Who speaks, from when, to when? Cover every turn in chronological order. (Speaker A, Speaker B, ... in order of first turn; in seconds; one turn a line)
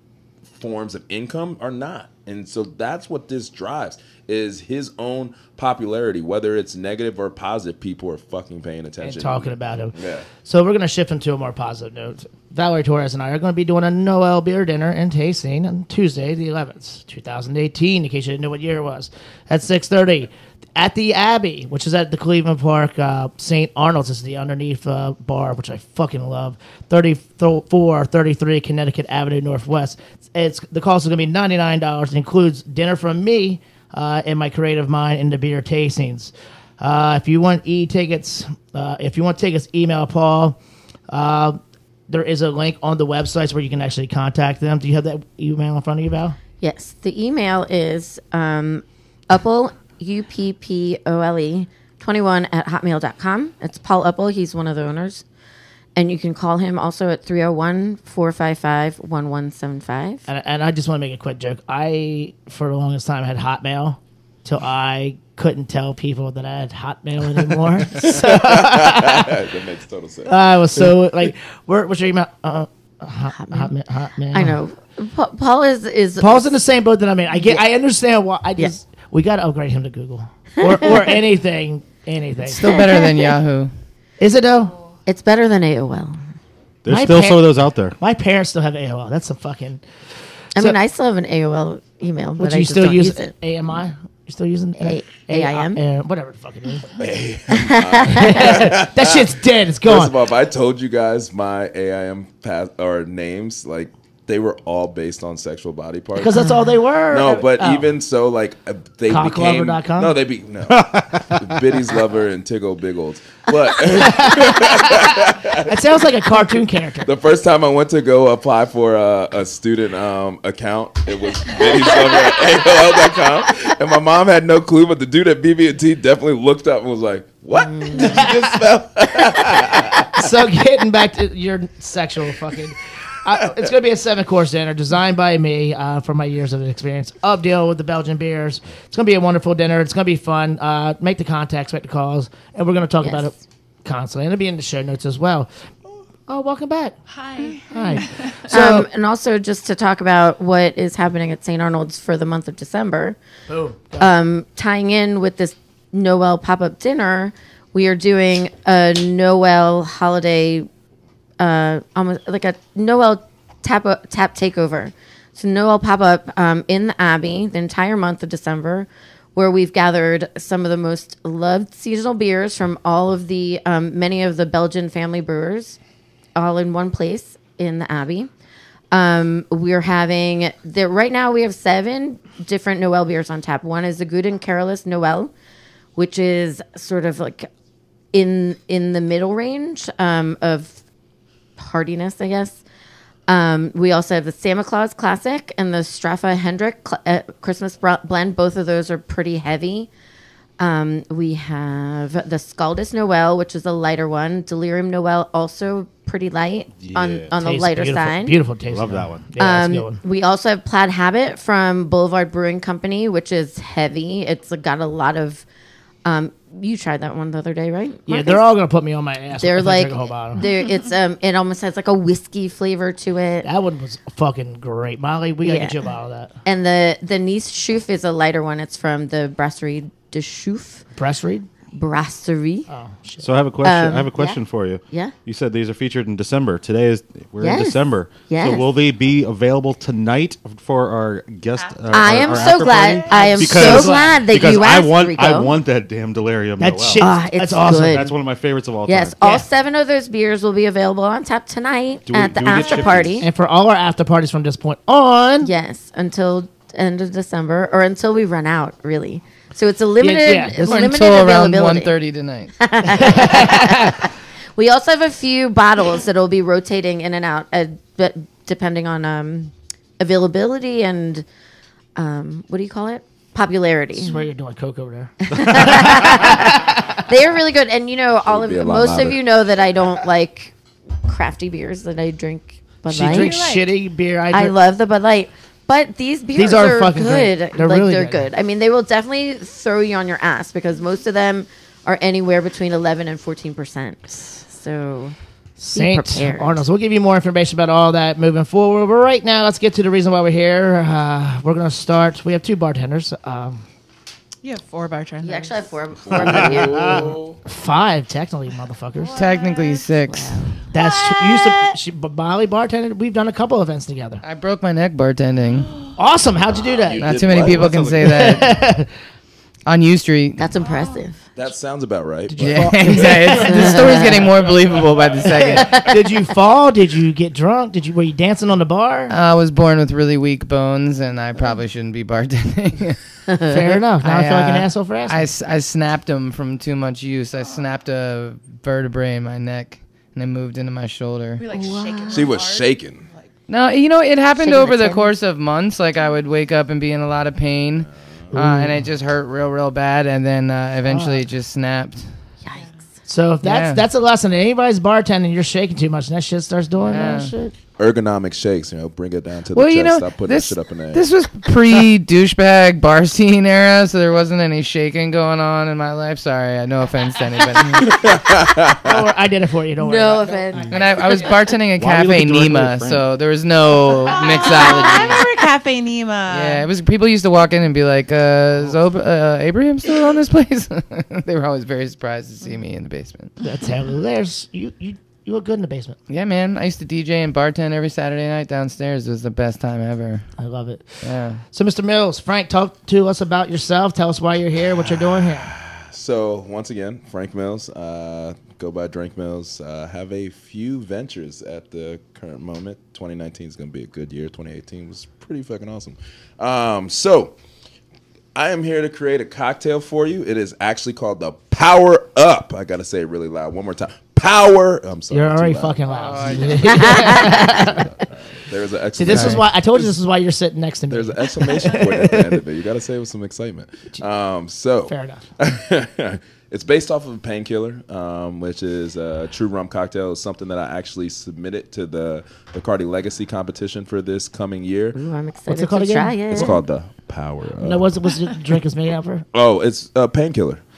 Speaker A: 0.4-10.3
Speaker B: 9.0-40.6
Speaker B: 41.1-46.4
Speaker C: 46.6-55.2
Speaker C: 56.0-60.2
Speaker B: 60.3-69.5
Speaker A: 67.9-70.4
Speaker B: 70.2-74.6
Speaker C: 73.3-73.7
Speaker C: 74.3-76.5
Speaker B: 76.2-82.7
Speaker C: 80.6-80.9
Speaker D: 82.5-83.7
Speaker C: 82.7-83.2
Speaker B: 84.2-84.7
Speaker C: 85.0-86.2
Speaker E: 86.8-87.9
Speaker B: 86.9-89.8
Speaker C: 90.5-93.3
Speaker B: 92.4-96.9
Speaker C: 94.8-95.8
Speaker A: 97.0-99.3
Speaker C: 97.6-98.5
Speaker B: 98.1-100.2
Speaker A: 99.8-106.4
Speaker B: 106.1-108.0
Speaker A: 107.1-115.8
Speaker B: 109.1-110.2
Speaker E: 110.8-111.5
Speaker B: 113.9-117.1
Speaker A: 117.0-130.3
Speaker B: 127.9-128.4
Speaker B: 130.1-145.5
Speaker C: 143.0-143.3
Speaker B: 146.2-146.9
Speaker F: 147.1-148.5
Speaker B: 147.6-148.9
Speaker C: 148.5-153.2
Speaker B: 153.5-154.1
Speaker C: 154.0-160.7
Speaker C: 161.4-175.8
Speaker C: 176.3-178.3
Speaker C: 178.9-185.3
Speaker C: 185.9-187.5
Speaker C: 188.1-190.8
Speaker C: 191.6-192.6
Speaker C: 193.3-199.9
Speaker C: 200.6-208.3
Speaker E: 206.8-207.3
Speaker B: 207.3-210.0
Speaker E: 208.7-209.3
Speaker C: 209.4-215.4
Speaker C: 216.0-218.4
Speaker B: 218.1-220.4
Speaker C: 219.4-223.5
Speaker B: 223.4-226.3
Speaker C: 225.4-225.8
Speaker C: 226.4-230.8
Speaker B: 230.9-231.5
Speaker C: 231.7-232.7
Speaker B: 232.7-233.3
Speaker E: 233.2-247.1
Speaker C: 233.6-235.1
Speaker C: 237.4-238.7
Speaker F: 241.5-243.5
Speaker C: 241.9-245.5
Speaker B: 243.2-244.2
Speaker B: 246.6-248.1
Speaker C: 247.0-248.1
Speaker E: 247.7-249.1
Speaker C: 248.8-253.3
Speaker E: 252.1-253.2
Speaker F: 252.5-253.0
Speaker B: 253.2-255.5
Speaker C: 255.4-261.9
Speaker B: 260.0-260.8
Speaker D: 260.6-262.5
Speaker C: 262.6-271.2
Speaker B: 263.0-263.9
Speaker C: 271.9-274.1
Speaker B: 273.9-277.0
Speaker C: 275.3-280.5
Speaker A: 278.3-279.2
Speaker C: 281.0-283.4
Speaker B: 282.9-284.6
Speaker F: 283.1-283.7
Speaker C: 284.3-295.1
Speaker B: 286.3-288.3
Speaker B: 295.6-303.6
Speaker C: 295.7-296.6
Speaker F: 304.4-305.7
Speaker C: 305.2-307.1
Speaker A: 306.0-307.4
Speaker B: 307.4-309.2
Speaker F: 309.0-309.9
Speaker D: 309.1-310.3
Speaker C: 310.1-310.6
Speaker F: 310.7-311.7
Speaker B: 310.7-314.2
Speaker D: 314.2-315.7
Speaker F: 315.7-315.9
Speaker B: 315.9-317.2
Speaker A: 316.6-318.2
Speaker D: 317.0-318.6
Speaker E: 317.3-318.3
Speaker B: 317.9-318.9
Speaker D: 319.6-320.5
Speaker C: 320.4-321.2
Speaker F: 320.6-321.0
Speaker A: 321.4-322.6
Speaker B: 322.3-324.2
Speaker D: 322.4-325.9
Speaker C: 323.5-324.1
Speaker B: 325.2-329.1
Speaker D: 329.1-333.0
Speaker C: 333.3-333.6
Speaker B: 333.5-335.2
Speaker D: 334.0-341.4
Speaker F: 337.4-337.6
Speaker F: 341.4-343.3
Speaker C: 341.5-342.3
Speaker A: 342.1-343.1
Speaker D: 343.5-352.1
Speaker C: 344.4-345.1
Speaker B: 348.3-348.8
Speaker B: 350.8-351.2
Speaker F: 352.5-352.8
Speaker B: 353.1-357.5
Speaker D: 353.4-353.8
Speaker D: 356.8-357.3
Speaker A: 357.8-361.1
Speaker D: 359.5-368.0
Speaker A: 367.9-368.9
Speaker B: 368.8-370.9
Speaker C: 369.8-371.2
Speaker D: 370.7-375.3
Speaker E: 371.7-373.1
Speaker F: 374.1-376.7
Speaker D: 376.3-383.3
Speaker B: 383.4-386.0
Speaker D: 386.1-390.2
Speaker B: 390.4-395.5
Speaker D: 391.0-391.4
Speaker A: 394.8-407.4
Speaker A: 408.3-419.4
Speaker B: 415.1-417.9
Speaker D: 415.9-417.3
Speaker C: 416.7-417.5
Speaker B: 418.9-422.4
Speaker D: 419.1-419.4
Speaker A: 420.9-435.0
Speaker B: 424.9-425.2
Speaker C: 434.9-436.6
Speaker B: 435.5-436.6
Speaker A: 436.3-437.9
Speaker B: 437.6-439.2
Speaker A: 439.3-440.6